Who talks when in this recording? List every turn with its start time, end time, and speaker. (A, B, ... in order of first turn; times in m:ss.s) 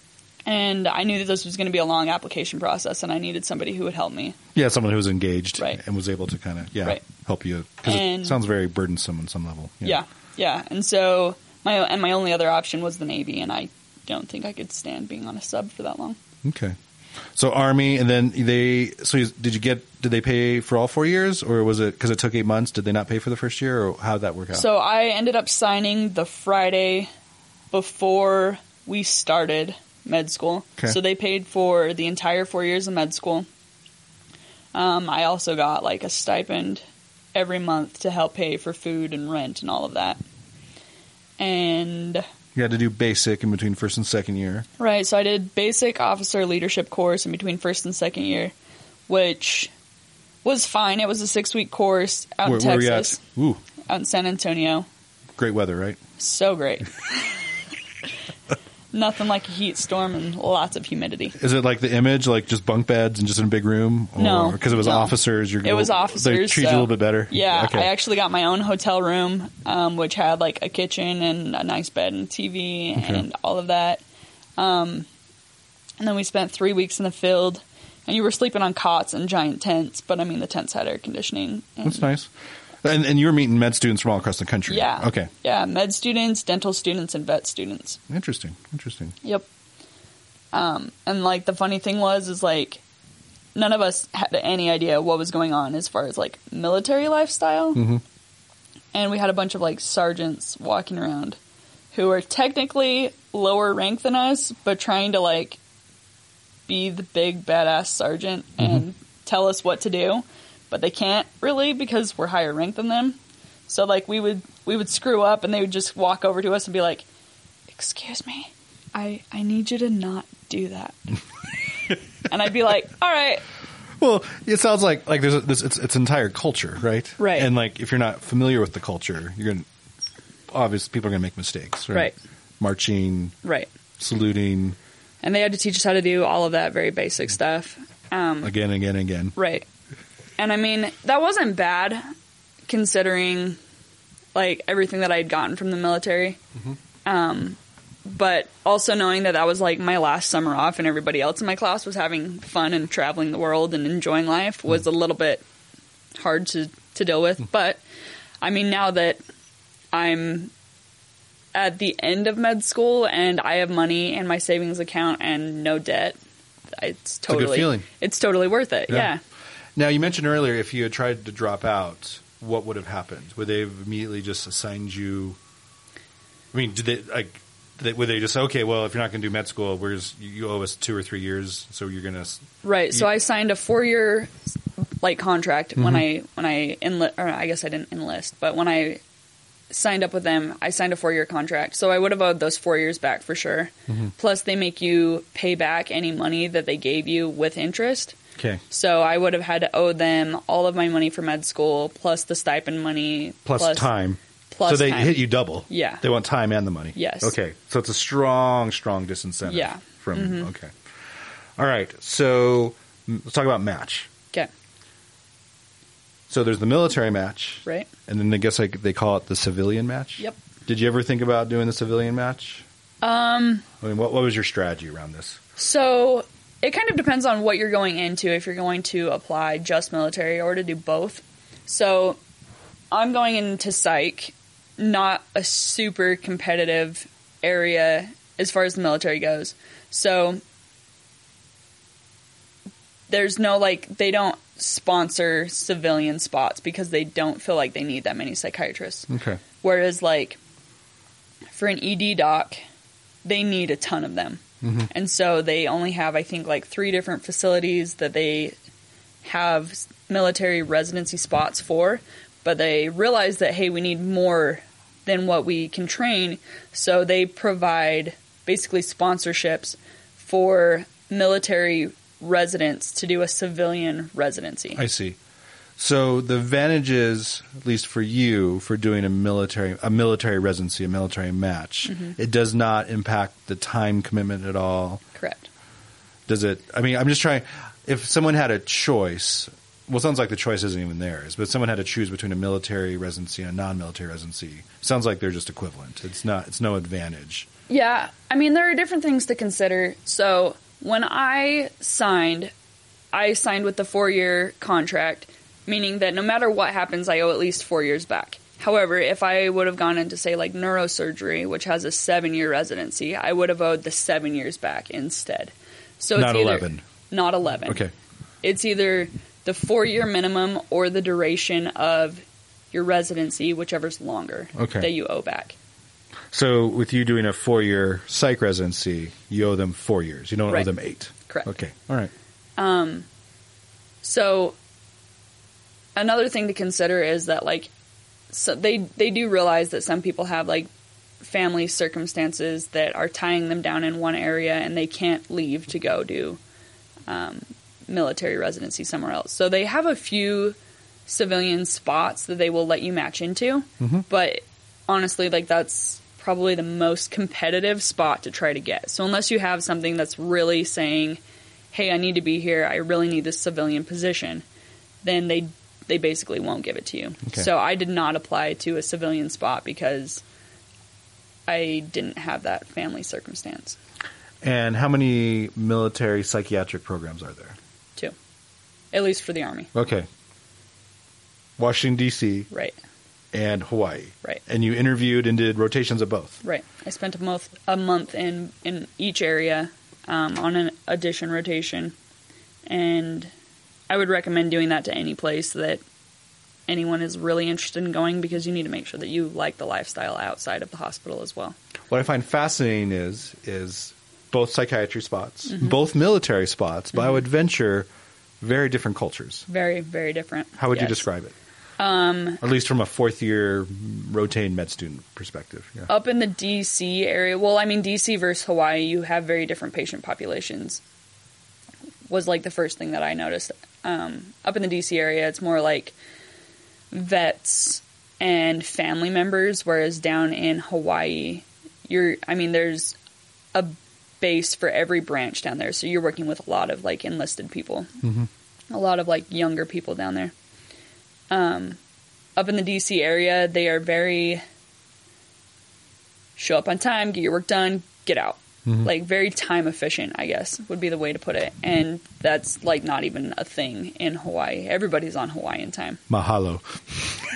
0:00.4-0:04.4 A
0:04.6-0:10.0 B
0:07.9-0:08.4 A
0:09.8-0:16.2 A
0:16.4-0:16.8 B
0:17.3-0:24.7 B
0:24.5-0:27.1 A
0:27.7-0:33.5 A
0:34.7-0:36.8 A
0:37.3-0:40.2 A
0:41.4-0:42.2 A
0:42.6-0:44.7 B
0:44.8-0:48.5 A
0:49.1-0:49.7 A
0:50.4-0:53.2 A
0:52.4-0:53.6 B
0:53.9-0:54.9 A
0:55.4-0:56.0 B
0:56.2-0:57.4 A
0:58.9-1:01.4 A
1:01.4-1:07.9 B
1:04.2-1:14.0 A
1:13.0-1:13.2 B
1:14.6-1:15.1 A
1:16.0-1:22.1 A
1:21.8-1:22.3 B
1:22.8-1:25.3 B
1:24.7-1:28.0 A
1:28.1-1:29.2 B
1:30.5-1:32.8 A
1:33.6-1:37.8 A
1:37.8-1:38.0 B
1:38.9-1:41.4 A
1:41.9-1:45.6 A
1:46.7-1:57.0 A
1:57.7-2:01.0 A
2:02.3-2:03.4 A
2:04.0-2:09.7 B
2:07.2-2:07.5 A
2:10.5-2:13.4 B
2:13.4-2:13.7 A
2:14.0-2:14.8 B
2:15.2-2:18.5 A
2:18.4-2:19.4 B
2:19.4-2:19.7 A
2:20.4-2:22.0 A
2:22.7-2:23.6 A
2:24.3-2:26.4 A
2:27.0-2:35.4 A
2:36.2-2:37.8 A
2:38.4-2:39.2 A
2:39.9-2:40.5 A
2:41.5-2:46.2 A
2:46.7-2:49.2 A
2:47.3-2:47.9 B
2:49.8-2:55.4 B
2:56.5-3:03.1 B
3:02.6-3:04.3 A
3:05.0-3:09.0 A
3:05.8-3:06.1 B
3:09.7-3:18.2 A
3:18.7-3:23.9 A
3:23.4-3:30.7 B
3:24.5-3:26.0 A
3:27.0-3:27.3 A
3:29.4-3:30.5 A
3:31.6-3:34.1 B
3:36.3-3:42.6 B
3:43.0-3:43.7 A
3:43.8-3:45.4 B
3:45.6-3:52.2 A
3:52.9-4:00.4 A
4:03.1-4:09.1 A
4:09.1-4:09.4 B
4:09.6-4:10.4 A
4:11.5-4:12.6 A
4:13.2-4:18.6 A
4:14.6-4:14.9 B
4:19.2-4:34.8 A
4:34.8-4:35.2 B
4:35.8-4:45.0 B
4:41.9-4:42.2 A
4:45.2-4:45.5 A
4:46.3-4:57.5 B
4:57.7-5:02.5 A
5:03.1-5:17.8 A
5:16.2-5:16.8 B
5:17.7-5:17.9 B
5:18.4-5:25.6 A
5:24.6-5:24.9 B
5:26.3-5:32.1 B
5:32.6-5:33.1 A
5:34.0-5:34.6 A
5:36.0-5:37.7 A
5:38.3-5:40.7 A
5:41.2-5:46.4 A
5:47.1-6:01.2 A
5:53.8-5:54.0 B
6:01.7-6:04.4 A
6:05.0-6:10.2 A
6:11.5-6:13.8 A
6:14.4-6:17.6 B
6:18.9-6:19.7 A
6:19.7-6:20.1 B
6:21.6-6:22.5 B
6:22.5-6:22.8 A
6:23.3-6:26.4 B
6:26.4-6:31.9 A
6:32.7-6:33.3 A
6:33.9-6:35.8 A
6:36.7-6:41.6 A
6:41.9-6:47.9 B
6:45.5-6:45.8 A
6:48.4-6:49.5 B
6:49.5-6:51.1 A
6:50.6-6:51.3 B
6:51.8-6:52.4 A
6:52.4-6:55.9 B
6:55.9-7:00.8 A
7:02.1-7:06.0 A
7:06.9-7:13.0 A
7:13.5-7:17.9 A
7:18.0-7:18.3 B
7:18.7-7:20.3 A
7:21.3-7:21.8 A
7:22.4-7:24.4 A
7:26.4-7:36.0 A
7:36.1-7:37.1 B